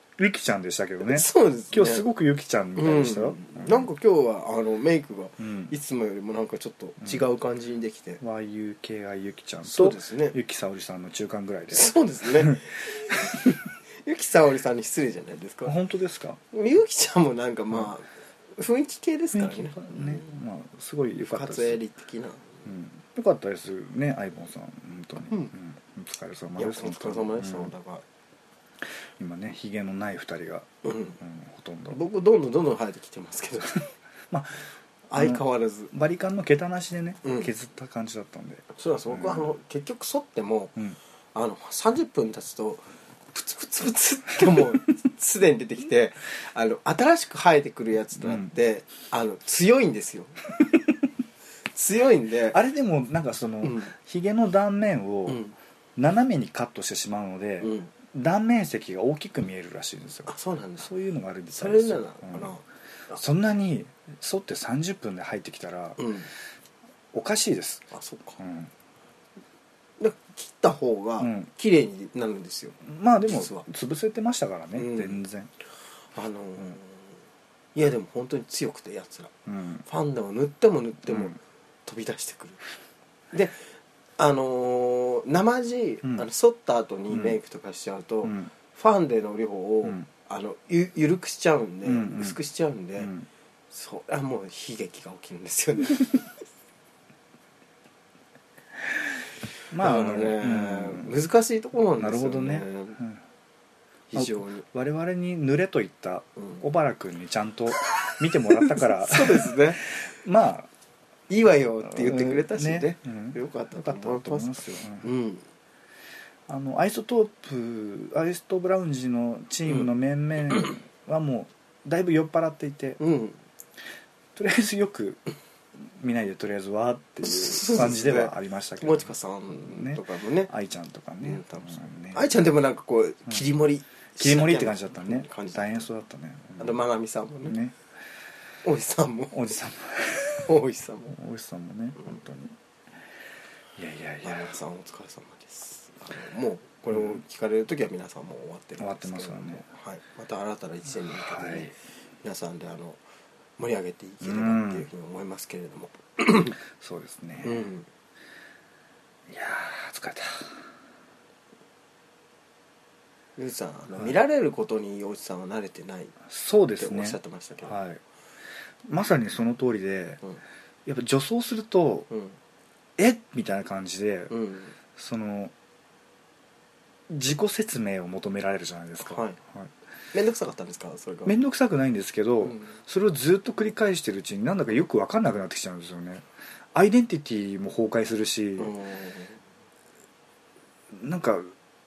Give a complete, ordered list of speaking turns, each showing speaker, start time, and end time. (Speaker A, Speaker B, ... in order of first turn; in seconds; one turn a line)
Speaker A: 0.2-3.9
Speaker B: 1.0-2.0
Speaker B: 2.8-8.2
Speaker A: 5.4-5.7
Speaker A: 8.2-12.6
Speaker B: 9.6-10.3
Speaker B: 11.7-15.7
Speaker A: 15.6-16.4
Speaker B: 16.5-20.3
Speaker A: 19.3-21.8
Speaker B: 21.3-22.6
Speaker A: 22.6-27.7
Speaker B: 26.6-28.0
Speaker A: 29.2-32.0
Speaker B: 30.8-31.2
Speaker B: 31.9-33.8
Speaker A: 34.3-34.6
Speaker B: 35.1-35.9
Speaker A: 35.1-39.5
Speaker B: 37.2-37.5
Speaker B: 38.8-40.8
Speaker B: 41.3-50.4
Speaker A: 48.2-48.5
Speaker B: 51.7-52.6
Speaker A: 52.5-55.4
Speaker B: 53.6-53.9
Speaker B: 55.3-55.5
Speaker A: 56.0-62.6
Speaker B: 57.6-57.9
Speaker B: 60.3-60.9
Speaker B: 61.5-63.2
Speaker A: 63.1-66.0
Speaker B: 66.0-66.3
Speaker A: 67.1-67.8
Speaker B: 67.9-68.4
Speaker A: 68.4-68.7
Speaker B: 70.0-73.7
Speaker A: 71.2-71.5
Speaker A: 72.8-75.5
Speaker B: 74.8-75.2
Speaker B: 76.1-77.1
Speaker B: 77.7-79.3
Speaker A: 79.5-79.8
Speaker B: 79.8-82.6
Speaker A: 81.1-81.3
Speaker B: 83.3-83.6
Speaker B: 84.2-93.1
Speaker A: 87.1-87.4
Speaker A: 88.2-88.5
Speaker A: 91.8-92.4
Speaker A: 93.0-93.3
Speaker B: 93.7-96.1
Speaker A: 99.7-101.2
Speaker B: 99.8-103.0
Speaker A: 102.0-103.2
Speaker B: 104.1-104.6
Speaker A: 104.1-110.7
Speaker B: 108.1-109.8
Speaker B: 111.3-115.4
Speaker A: 111.8-115.1
Speaker A: 116.5-123.0
Speaker B: 123.0-123.4
Speaker A: 124.3-125.2
Speaker A: 125.8-129.1
Speaker B: 127.2-130.5
Speaker A: 129.6-132.3
Speaker B: 131.2-135.8
Speaker A: 134.2-136.8
Speaker B: 136.6-137.6
Speaker A: 137.4-137.8
Speaker B: 138.6-139.4
Speaker A: 139.3-140.5
Speaker B: 140.3-141.2
Speaker A: 141.1-142.6
Speaker A: 143.8-144.6
Speaker B: 144.2-153.0
Speaker A: 146.9-147.2
Speaker A: 148.8-149.7
Speaker A: 151.1-151.7
Speaker B: 153.6-156.6
Speaker A: 154.2-154.9
Speaker A: 156.8-157.7
Speaker B: 157.4-157.9
Speaker A: 159.3-160.6
Speaker B: 163.4-166.2
Speaker A: 166.2-168.0
Speaker B: 166.8-167.8
Speaker A: 168.8-170.2
Speaker A: 170.8-172.1
Speaker A: 173.0-174.3
Speaker B: 174.3-174.7
Speaker A: 174.9-175.5
Speaker A: 177.1-179.7
Speaker B: 179.1-179.4
Speaker B: 180.1-181.3
Speaker A: 181.2-188.7
Speaker B: 182.4-182.7
Speaker B: 188.6-189.4
Speaker A: 190.9-191.5